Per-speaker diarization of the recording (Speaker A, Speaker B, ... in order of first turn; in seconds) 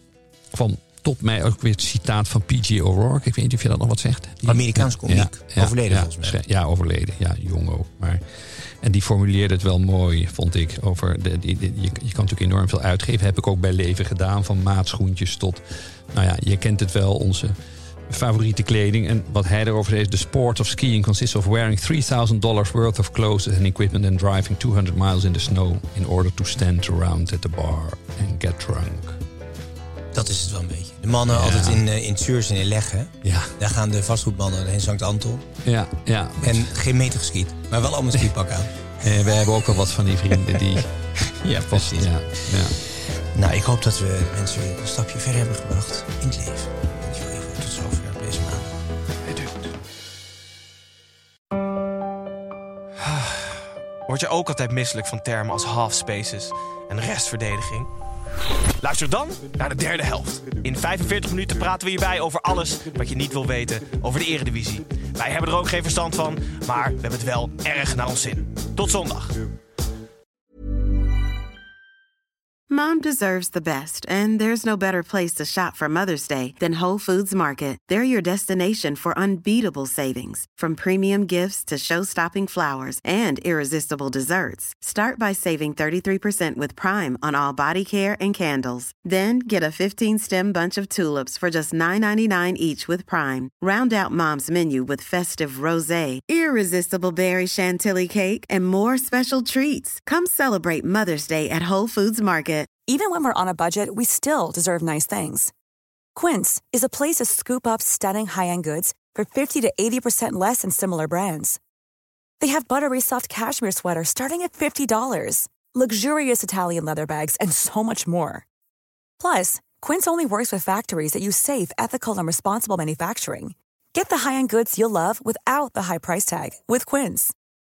Speaker A: 0.5-29.2, 31.3-31.8, 33.2-33.6, 35.6-36.7, 39.0-40.9, 41.7-42.8
Speaker B: 4.5-6.4, 30.1-35.5, 36.4-38.7, 40.3-42.7, 43.3-48.8
Speaker C: 49.3-49.7, 53.0-57.9, 58.8-69.4
Speaker D: 72.7-102.7
Speaker E: 102.9-105.5, 106.2-111.6, 112.4-118.5, 119.2-127.3